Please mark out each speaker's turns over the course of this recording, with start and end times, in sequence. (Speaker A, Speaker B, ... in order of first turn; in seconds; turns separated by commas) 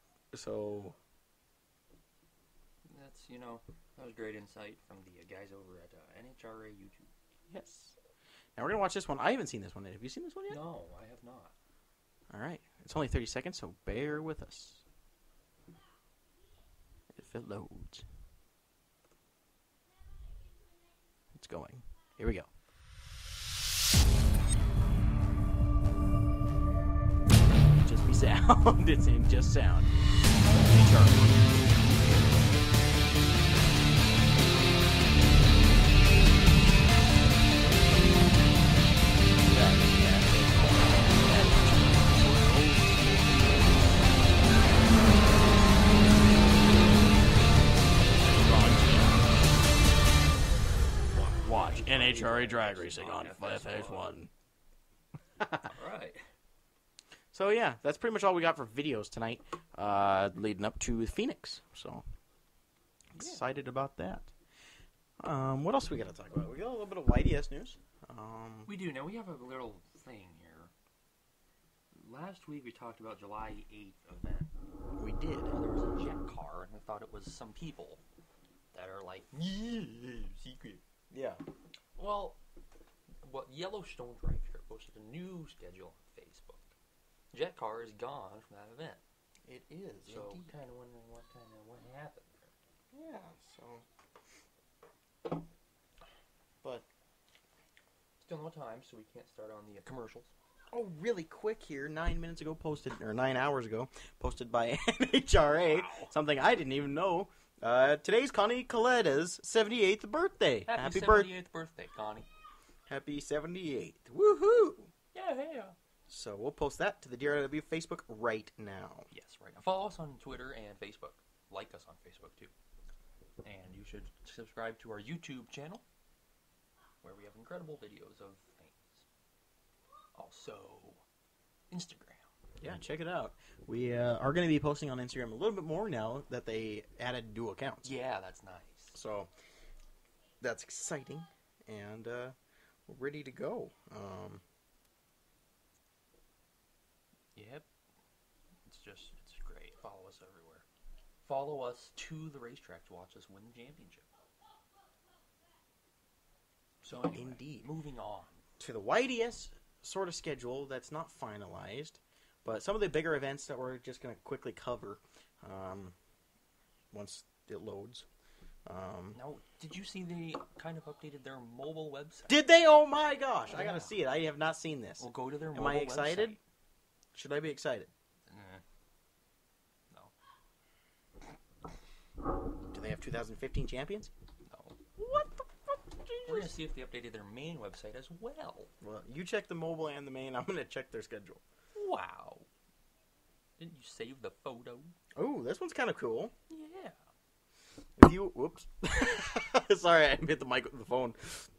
Speaker A: 0.3-0.9, Speaker B: 2.9-7.1, Speaker A: 7.5-7.9, Speaker A: 8.6-10.6, Speaker B: 10.5-11.5, Speaker A: 12.3-14.8, Speaker A: 17.1-18.1, Speaker A: 21.3-22.5, Speaker A: 27.7-29.9, Speaker A: 30.4-31.5, Speaker A: 39.4-43.7, Speaker A: 48.1-49.4, Speaker B: 51.1-54.1, Speaker A: 51.4-54.3, Speaker A: 55.4-55.7, Speaker B: 55.6-56.3, Speaker A: 57.3-62.0, Speaker A: 63.1-64.3, Speaker A: 65.2-68.7, Speaker B: 68.7-70.7, Speaker B: 72.0-74.5, Speaker A: 75.0-75.5, Speaker B: 75.5-78.0, Speaker B: 78.7-80.8, Speaker A: 81.1-81.4, Speaker B: 82.0-82.4, Speaker B: 83.2-86.7, Speaker B: 87.3-89.0, Speaker A: 89.4-90.5, Speaker B: 90.0-92.5, Speaker A: 92.9-93.8, Speaker B: 98.2-100.3, Speaker A: 100.7-111.3, Speaker B: 105.6-106.1, Speaker B: 110.7-112.3, Speaker A: 112.9-114.9, Speaker B: 115.1-115.7, Speaker A: 116.1-119.1, Speaker B: 119.1-122.5, Speaker B: 123.4-125.8, Speaker B: 127.0-129.0, Speaker B: 130.1-131.0, Speaker B: 131.7-132.3, Speaker A: 132.6-137.9, Speaker B: 137.8-138.9, Speaker A: 138.9-139.3, Speaker A: 140.4-142.3, Speaker A: 142.9-144.4, Speaker B: 147.3-147.7, Speaker B: 148.6-150.6, Speaker B: 151.2-154.1, Speaker B: 156.8-158.4, Speaker A: 157.0-157.7, Speaker A: 158.6-165.9, Speaker A: 166.9-168.1, Speaker A: 168.7-169.2, Speaker B: 169.1-172.3, Speaker A: 172.3-176.4, Speaker B: 173.5-173.9, Speaker B: 175.0-176.4, Speaker A: 177.1-177.9, Speaker B: 178.2-178.6, Speaker A: 182.7-184.1, Speaker B: 184.5-184.8, Speaker A: 184.9-186.6, Speaker B: 186.2-188.7, Speaker A: 188.8-191.4, Speaker B: 191.7-192.4, Speaker B: 193.6-194.9, Speaker A: 195.2-196.3, Speaker B: 196.5-197.0, Speaker A: 198.0-201.5